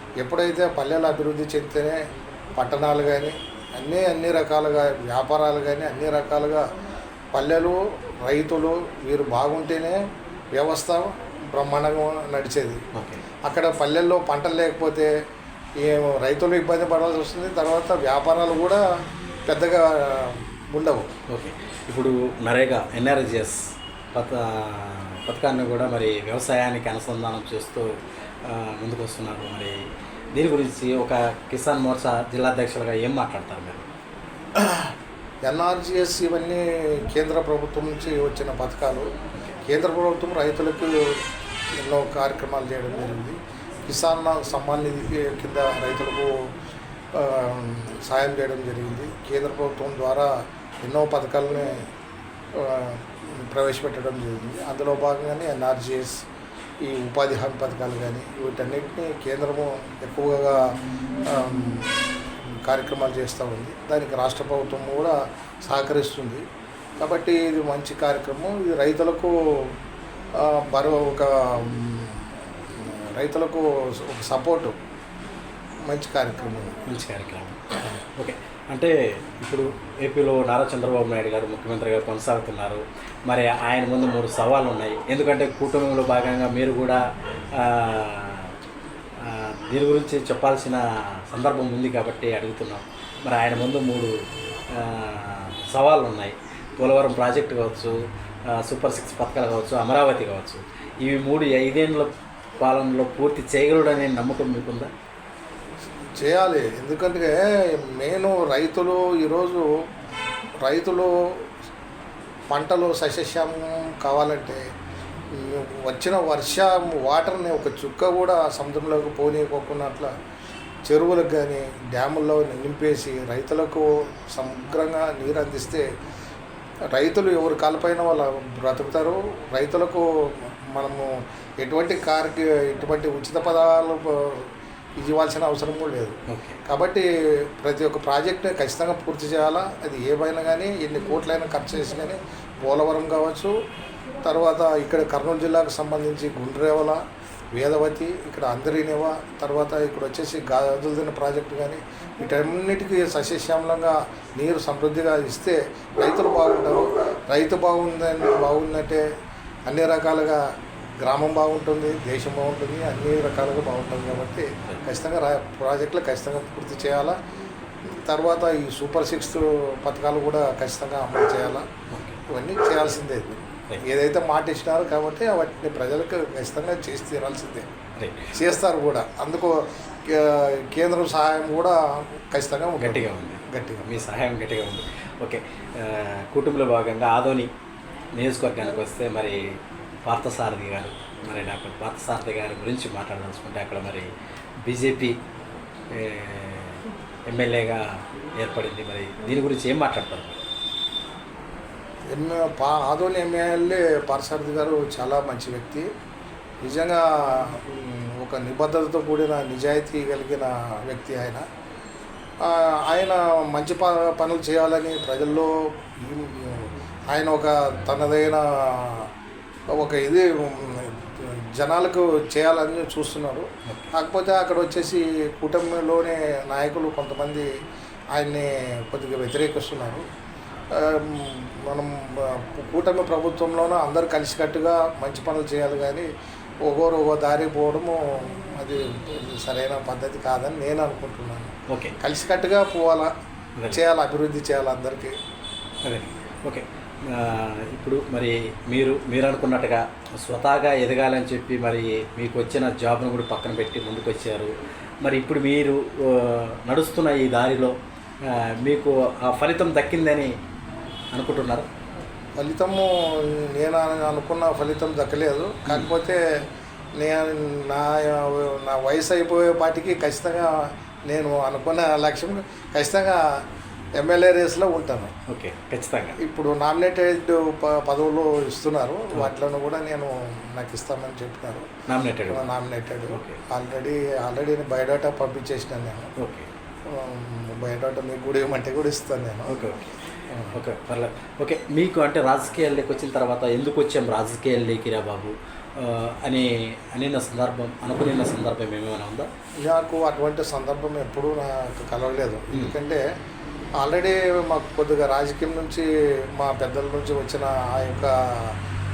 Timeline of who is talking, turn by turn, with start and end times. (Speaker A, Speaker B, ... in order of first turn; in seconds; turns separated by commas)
Speaker A: 0.2-2.0, Speaker A: 2.6-6.6, Speaker A: 7.3-10.0, Speaker A: 10.6-12.8, Speaker B: 12.9-13.2, Speaker A: 13.4-15.1, Speaker A: 15.8-18.8, Speaker A: 19.5-21.1, Speaker B: 21.3-27.9, Speaker B: 28.4-29.8, Speaker B: 30.3-33.9, Speaker A: 34.6-34.9, Speaker A: 35.5-39.1, Speaker A: 39.6-41.2, Speaker A: 41.8-46.5, Speaker A: 47.1-51.9, Speaker A: 52.5-56.2, Speaker A: 56.8-62.0, Speaker A: 62.6-66.4, Speaker A: 67.0-69.7, Speaker A: 70.3-74.8, Speaker A: 75.9-76.8, Speaker B: 76.9-87.0, Speaker B: 87.5-88.5, Speaker B: 89.2-94.1, Speaker B: 94.7-104.9, Speaker A: 106.2-109.8, Speaker A: 110.6-111.5, Speaker A: 112.5-114.7, Speaker A: 115.3-120.1, Speaker A: 120.9-125.9, Speaker A: 126.9-143.5, Speaker B: 136.3-136.6, Speaker A: 144.2-147.0, Speaker A: 147.6-159.1, Speaker A: 159.7-160.5, Speaker A: 161.0-167.2, Speaker A: 167.9-171.7, Speaker B: 171.9-172.2, Speaker A: 172.3-177.7, Speaker B: 178.0-178.3, Speaker A: 178.3-183.9, Speaker B: 182.8-187.5, Speaker B: 188.2-194.1, Speaker B: 194.7-195.2, Speaker B: 195.9-200.4, Speaker A: 202.1-205.9, Speaker A: 206.6-211.4, Speaker A: 212.4-219.1, Speaker A: 219.7-227.5, Speaker B: 223.7-223.9, Speaker A: 228.1-230.0, Speaker A: 230.7-236.1, Speaker A: 236.6-243.1, Speaker B: 241.7-241.9, Speaker A: 243.7-245.2, Speaker B: 245.8-260.3, Speaker B: 261.1-261.7, Speaker A: 262.4-266.2, Speaker B: 265.6-265.9, Speaker A: 267.0-273.4, Speaker A: 274.0-275.1, Speaker B: 275.3-276.2, Speaker A: 276.2-281.7, Speaker B: 281.9-282.5, Speaker A: 282.3-286.1, Speaker B: 283.1-283.4, Speaker B: 286.2-286.5, Speaker A: 286.9-289.6, Speaker B: 289.5-290.0, Speaker A: 290.3-290.6, Speaker B: 290.5-299.3, Speaker A: 299.6-303.0, Speaker A: 303.8-308.6